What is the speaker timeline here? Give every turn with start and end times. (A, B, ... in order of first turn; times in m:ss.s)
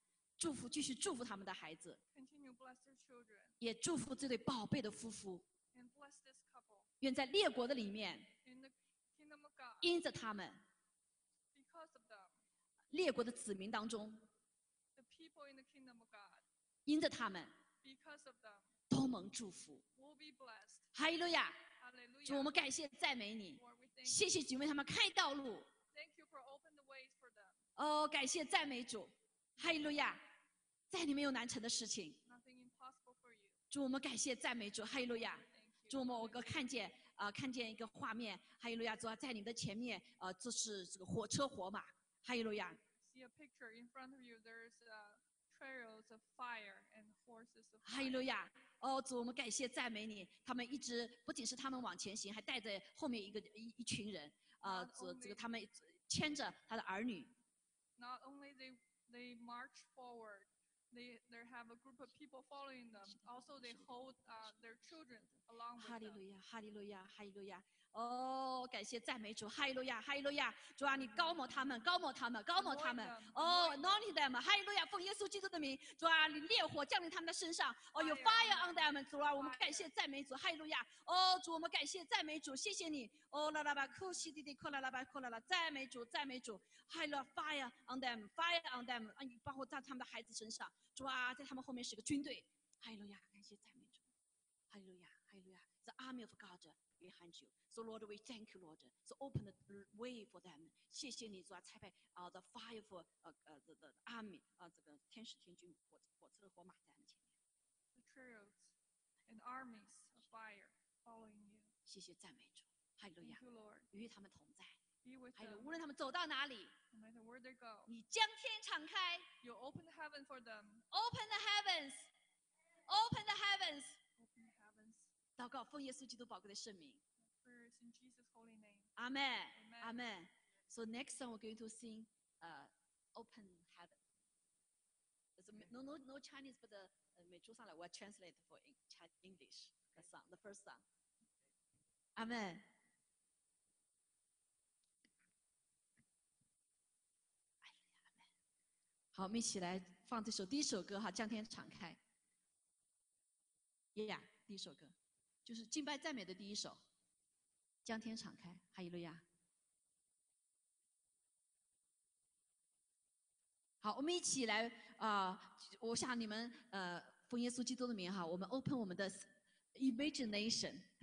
0:00.4-0:02.0 A
0:02.1-0:03.6 B
0:03.6-0:05.4 A
0:05.7-0:06.9 B
0:07.0-0:08.3 A
0:08.4-0:09.9 B
0:09.8-0:10.6 A
0:11.5-0:12.3 B
0:12.9-0:14.2 A
0:14.9-0:16.4 B
0:16.8-0:17.5 A
0:17.8-0:18.7 B
0:18.9-0:19.8 A
0:20.0-0:20.9 B
0:20.9-0:21.5 A
0:21.8-0:22.6 B
0:22.2-0:25.7 A
0:23.6-0:24.2 B
0:25.9-0:27.6 B
0:27.8-0:30.2 A
0:30.9-0:32.2 A
0:32.3-0:33.5 B
0:33.7-0:42.8 A
0:35.2-0:36.7 B
0:43.0-0:48.2 B
0:47.8-0:57.3 A
0:54.6-0:55.4 B
0:58.0-1:06.2 B
1:03.1-1:04.5 A
1:05.8-1:34.0 A
1:11.1-1:11.7 B
1:12.6-1:14.1 B
1:18.0-1:19.9 B
1:34.7-1:47.3 A
1:47.9-1:48.7 B
1:49.3-1:51.7 B
1:51.8-1:54.8 A
1:53.2-1:53.9 B
1:55.0-1:55.7 B
1:55.4-1:56.7 A
1:56.9-1:57.9 B
1:57.9-1:59.3 A
1:59.4-2:00.8 B
2:00.9-2:02.1 A
2:02.9-2:04.0 A
2:04.2-2:05.1 B
2:05.4-2:07.0 A
2:07.2-2:08.9 B
2:09.0-2:14.0 A
2:09.5-2:10.0 B
2:15.4-2:20.8 A
2:22.2-2:22.6 A
2:27.6-2:28.2 A
2:29.1-2:32.0 A
2:33.9-2:34.9 A
2:35.4-2:36.8 A
2:37.8-2:39.2 A
2:43.8-2:50.8 A